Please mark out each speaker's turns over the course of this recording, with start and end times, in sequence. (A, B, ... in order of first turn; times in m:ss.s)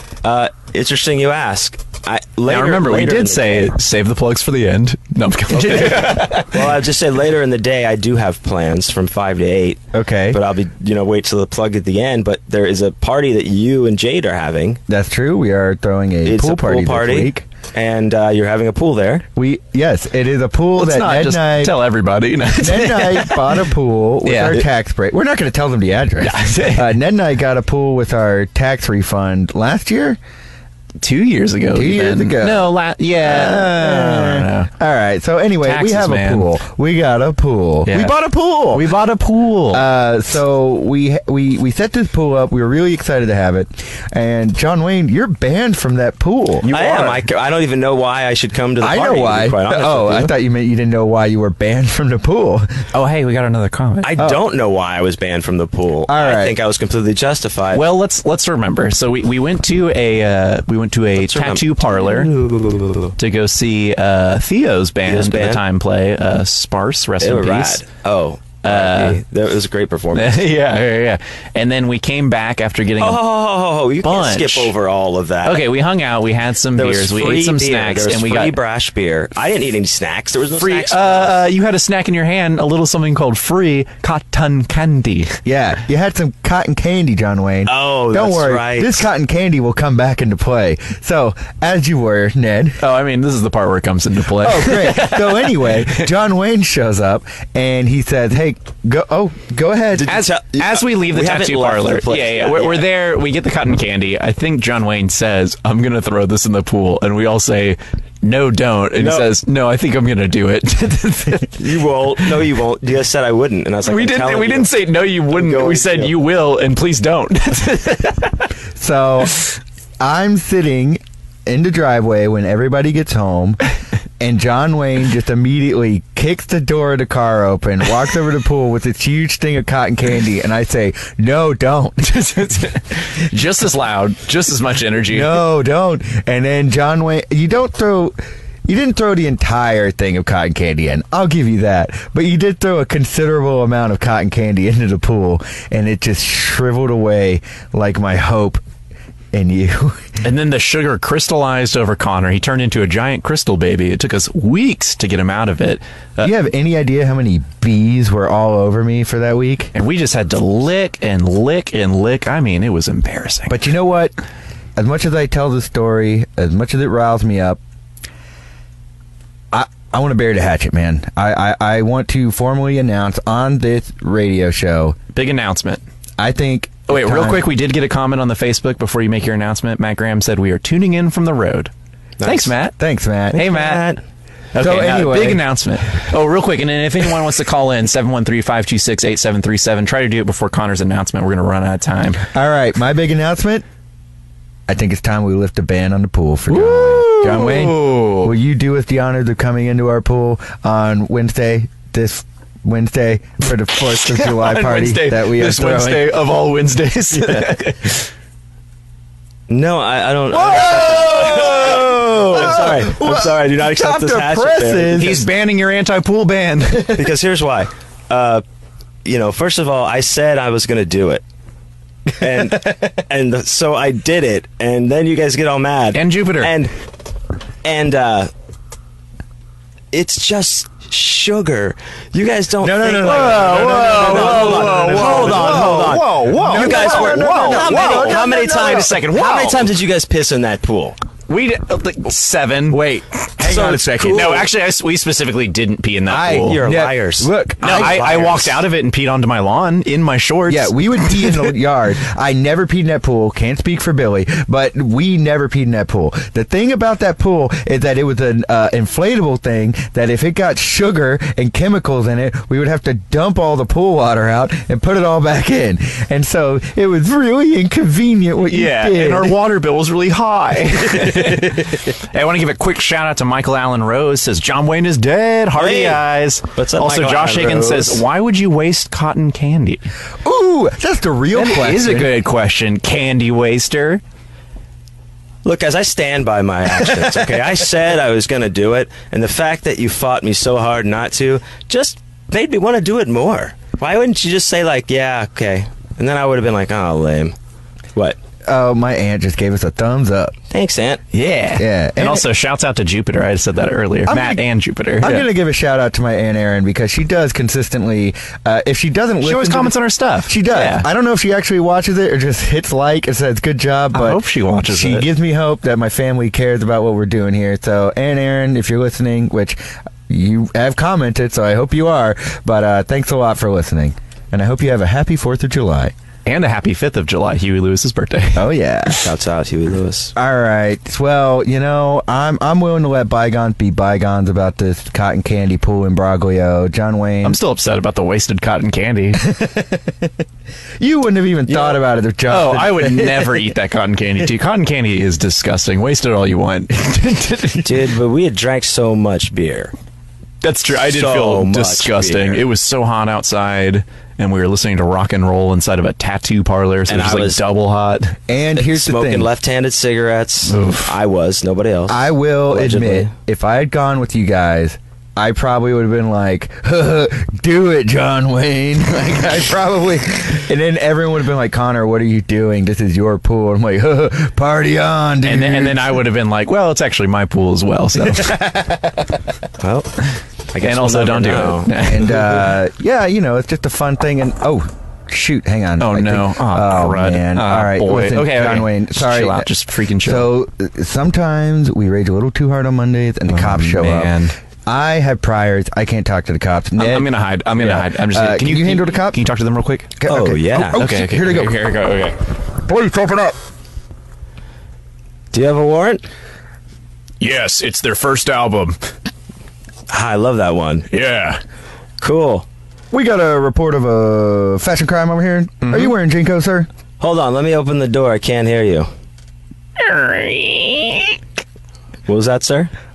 0:00.2-0:03.8 A
0:02.5-0:06.7 B
0:05.5-0:14.8 A
0:09.9-0:10.4 C
0:14.9-0:17.5 C
0:16.2-0:19.2 A
0:19.4-0:21.8 C
0:20.8-0:23.6 B
0:22.6-0:30.2 C
0:24.2-0:24.6 B
0:26.2-0:26.9 B
0:31.0-0:34.7 B
0:31.7-0:38.9 C
0:35.6-0:36.5 B
0:37.9-0:38.2 B
0:38.7-0:39.9 B
0:39.7-0:46.7 C
0:46.6-0:47.2 B
0:46.7-0:50.3 A
0:48.8-0:52.7 C
0:52.9-0:54.1 B
0:54.0-0:57.8 A
0:56.1-0:56.6 C
0:57.7-1:02.3 B
1:01.2-1:03.2 A
1:03.2-1:07.8 B
1:05.1-1:05.6 A
1:07.2-1:10.4 A
1:08.6-1:09.2 B
1:10.2-1:13.2 B
1:13.0-1:15.6 A
1:14.0-1:14.7 B
1:15.4-1:18.6 B
1:16.7-1:21.3 A
1:20.6-1:25.4 B
1:25.4-1:32.8 C
1:27.7-1:29.1 A
1:32.8-1:36.1 B
1:34.4-1:40.1 C
1:39.9-1:42.8 A
1:40.1-1:51.6 B
1:49.0-1:49.3 A
1:51.6-1:54.7 A
1:53.8-1:58.4 B
1:55.3-1:56.1 A
1:58.8-1:59.4 C
2:00.0-2:03.6 C
2:04.2-2:12.7 C
2:12.2-2:15.4 B
2:15.1-2:28.6 C
2:29.3-2:30.0 C
2:30.2-2:36.3 B
2:36.2-2:39.7 C
2:39.8-2:43.6 B
2:43.5-2:44.2 C
2:44.8-2:47.6 C
2:49.5-2:55.0 C
2:55.1-2:55.8 B
2:56.2-2:57.5 C
2:56.9-3:01.7 B
3:02.2-3:02.5 A
3:02.2-3:02.8 B
3:02.8-3:03.5 C
3:03.3-3:03.8 B
3:03.3-3:04.0 A
3:04.5-3:12.2 B
3:04.6-3:05.4 C
3:12.3-3:13.6 C
3:14.7-3:26.2 C
3:16.5-3:18.3 B
3:24.0-3:28.1 B
3:29.5-3:35.2 A
3:30.4-3:35.2 C
3:30.5-3:31.7 B
3:34.9-3:37.0 B
3:36.9-3:38.4 A
3:39.0-3:41.2 A
3:42.2-3:46.7 A
3:45.9-3:46.5 B
3:47.6-3:48.3 A
3:49.9-4:01.0 A
3:52.6-3:58.9 C
3:53.0-3:59.7 B
4:01.3-4:02.8 B
4:02.7-4:04.5 C
4:03.4-4:04.5 A
4:04.0-4:06.6 B
4:06.1-4:08.3 C
4:06.4-4:08.6 A
4:07.6-4:11.5 B
4:10.5-4:29.4 C
4:28.5-4:39.8 B
4:35.6-4:36.0 A
4:36.5-4:38.0 A
4:40.2-4:42.1 C
4:41.3-4:44.0 B
4:45.4-4:57.4 A
4:58.5-5:00.3 C
5:00.5-5:01.0 A
5:01.1-5:05.3 B
5:01.6-5:02.3 C
5:04.1-5:04.4 C
5:05.0-5:19.6 C
5:09.2-5:10.9 B
5:13.9-5:15.1 B
5:20.1-5:25.9 C
5:26.3-5:28.5 B
5:28.4-5:29.0 C
5:29.0-5:30.1 A
5:30.2-5:37.4 C
5:37.2-5:39.3 B
5:39.2-5:40.1 C
5:40.8-5:43.5 C
5:42.3-5:47.9 B
5:47.6-5:49.7 A
5:50.4-5:58.2 B
5:50.9-5:52.4 A
5:56.9-5:57.4 A
5:58.3-5:59.3 C
5:58.6-6:03.1 A
6:00.5-6:00.9 B
6:01.9-6:16.0 C
6:15.2-6:18.4 B
6:18.1-6:19.0 C
6:19.6-6:20.0 A
6:20.5-6:21.9 A
6:20.6-6:22.5 B
6:21.8-6:29.5 C
6:25.8-6:30.3 B
6:30.0-6:39.2 C
6:33.3-6:34.4 B
6:36.8-6:40.0 B
6:40.0-6:41.6 C
6:40.1-6:40.8 A
6:40.7-6:43.3 B
6:45.3-6:46.0 A
6:47.2-6:48.8 B
6:49.9-6:50.9 A
6:50.9-6:51.4 B
6:52.0-6:52.5 A
6:52.9-6:56.7 C
6:55.6-6:55.9 B
6:57.0-6:58.9 A
6:59.8-7:01.2 B
7:02.1-7:02.7 A